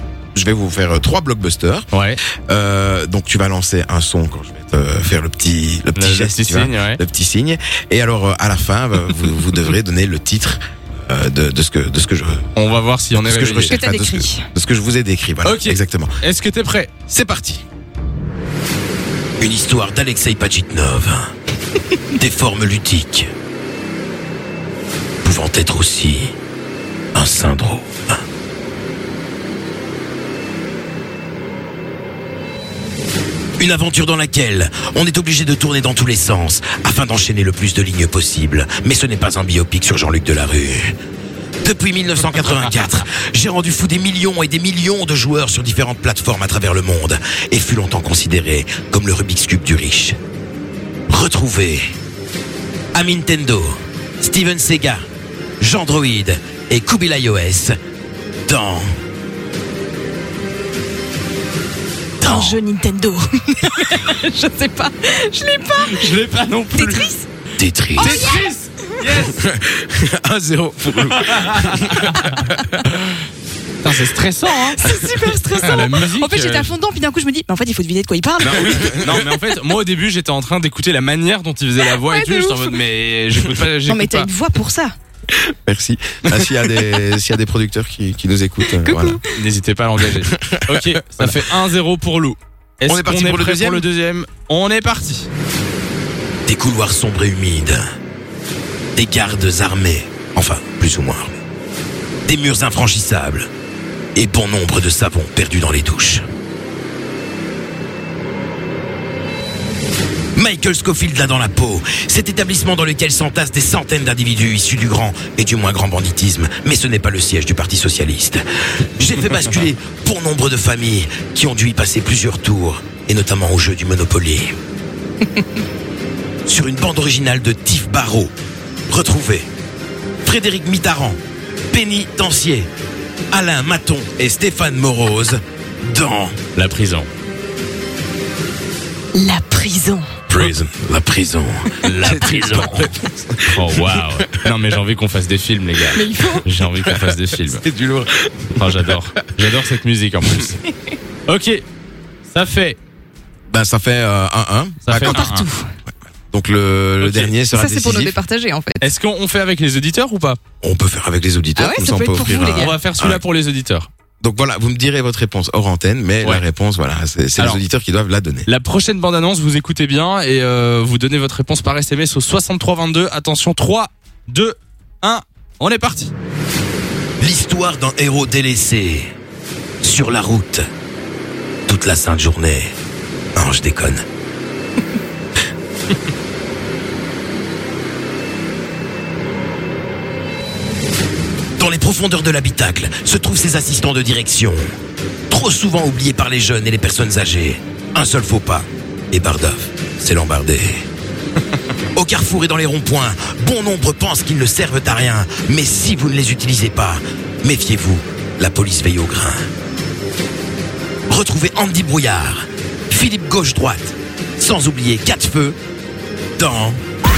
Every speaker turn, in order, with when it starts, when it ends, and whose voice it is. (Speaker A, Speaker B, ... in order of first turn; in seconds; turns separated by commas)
Speaker A: 0.3-1.9, Speaker B: 1.9-2.2, Speaker A: 2.5-12.5, Speaker B: 5.9-7.0, Speaker B: 12.6-13.8, Speaker A: 13.1-16.2, Speaker C: 13.7-14.5, Speaker B: 15.4-16.9, Speaker A: 17.1-17.6, Speaker A: 19.4-21.3, Speaker A: 22.1-23.3, Speaker A: 25.2-26.3, Speaker A: 27.1-28.2, Speaker A: 33.6-41.0, Speaker A: 41.6-50.2, Speaker A: 51.1-51.9, Speaker A: 52.9-55.1, Speaker A: 55.6-57.7, Speaker A: 58.5-58.9, Speaker A: 62.2-62.6, Speaker C: 62.2-66.2, Speaker B: 65.8-67.1, Speaker C: 66.7-67.2, Speaker A: 67.5-68.3, Speaker C: 68.0-69.2, Speaker B: 68.0-69.4, Speaker A: 69.3-73.1, Speaker B: 71.1-72.5, Speaker B: 73.8-74.9, Speaker C: 74.5-79.1, Speaker B: 75.5-76.7, Speaker A: 78.4-79.3, Speaker B: 78.5-84.3, Speaker C: 81.9-82.8, Speaker C: 83.8-84.9, Speaker A: 85.3-89.2, Speaker C: 88.8-89.2, Speaker B: 89.2-95.3, Speaker A: 90.0-91.5, Speaker A: 92.8-93.8, Speaker A: 96.5-97.8, Speaker A: 99.0-101.4, Speaker A: 102.2-103.5, Speaker A: 104.1-106.2, Speaker A: 110.3-118.4, Speaker A: 119.0-124.5, Speaker A: 126.5-128.3, Speaker A: 128.9-129.5, Speaker A: 130.2-131.2, Speaker A: 131.7-132.7, Speaker A: 133.3-136.4, Speaker B: 136.5-137.1, Speaker C: 139.1-140.1, Speaker A: 140.3-144.5, Speaker B: 141.8-142.9, Speaker B: 143.4-147.6, Speaker C: 145.9-146.4, Speaker A: 146.8-148.9, Speaker B: 148.6-150.6, Speaker B: 151.3-151.6, Speaker B: 152.3-152.8, Speaker A: 153.5-155.3, Speaker B: 154.8-155.4, Speaker C: 155.0-155.7, Speaker A: 156.3-158.2, Speaker B: 157.0-157.3, Speaker C: 157.5-158.9, Speaker B: 158.8-160.4, Speaker A: 160.6-163.2, Speaker C: 161.6-162.7, Speaker B: 162.4-163.9, Speaker A: 164.2-168.5, Speaker B: 167.4-167.6, Speaker B: 168.4-176.1, Speaker A: 177.2-179.1, Speaker A: 179.8-180.6, Speaker A: 181.7-182.7, Speaker A: 183.3-184.0, Speaker A: 191.6-194.7, Speaker A: 195.3-200.8, Speaker A: 201.9-209.5, Speaker A: 211.1-215.6, Speaker A: 216.4-216.8